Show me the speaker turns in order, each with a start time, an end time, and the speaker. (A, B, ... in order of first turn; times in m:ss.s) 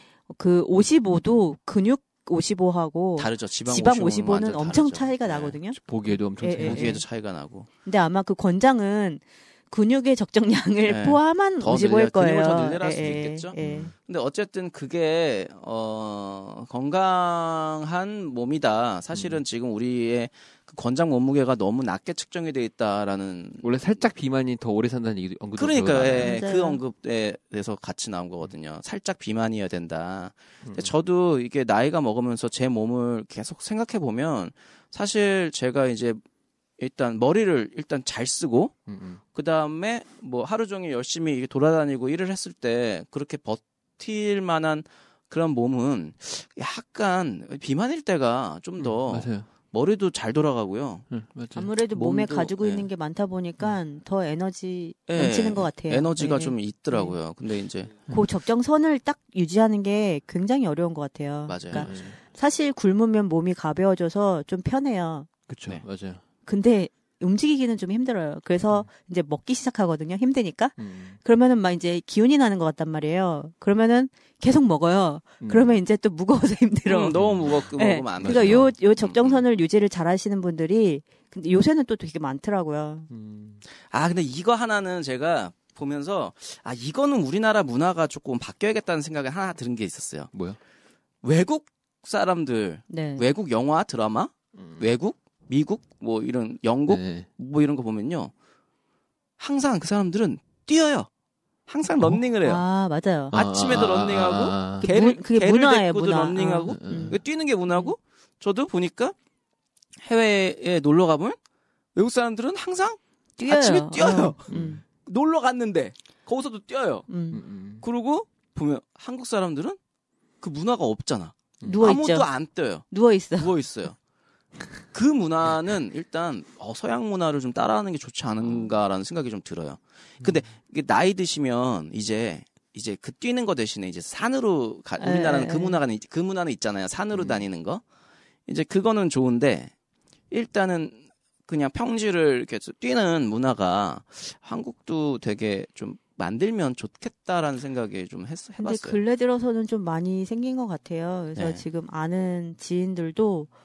0:00.3-0:05.8 A
0:03.2-0:05.6 B
0:05.7-0:07.0 C
0:06.4-0:07.0 A
0:06.6-0:07.7 B
0:07.8-0:13.9 A
0:10.8-0:23.8 B
0:13.6-0:13.9 C
0:19.1-0:19.4 C
0:23.6-0:26.4 C
0:25.6-0:36.2 B
0:26.2-0:26.8 A
0:36.8-0:38.7 B
0:38.9-0:39.2 C
0:39.3-0:51.0 B
0:48.8-0:49.5 C
0:51.1-0:51.7 C
0:51.5-0:57.2 A
0:51.9-0:52.9 B
0:55.1-0:58.0 B
0:58.1-1:05.3 A
1:01.4-1:01.9 B
1:01.7-1:02.2 C
1:05.5-1:06.2 C
1:06.4-1:23.1 A
1:10.8-1:11.2 C
1:15.4-1:15.7 C
1:16.8-1:19.4 B
1:17.1-1:18.7 C
1:23.1-1:23.6 C
1:23.9-1:30.3 B
1:30.3-1:30.6 C
1:31.2-1:38.3 B
1:32.9-1:33.2 A
1:34.6-1:34.8 C
1:36.9-1:37.3 C
1:39.4-1:41.1 B
1:41.7-1:42.6 B
1:42.4-1:43.3 A
1:43.3-1:44.9 C
1:43.3-1:49.1 B
1:44.8-1:47.2 A
1:46.7-1:47.2 C
1:50.0-1:51.4 B
1:51.9-1:57.1 B
1:53.4-1:54.8 A
1:54.5-1:54.8 C
1:57.1-1:57.4 A
1:57.3-1:57.8 C
1:57.8-1:59.8 B
2:00.4-2:04.0 B
2:01.6-2:03.6 A
2:04.9-2:17.8 B
2:15.0-2:15.8 A
2:17.1-2:17.4 C
2:18.5-2:19.7 B
2:20.3-2:29.0 B
2:28.6-2:33.5 A
2:31.4-2:31.6 B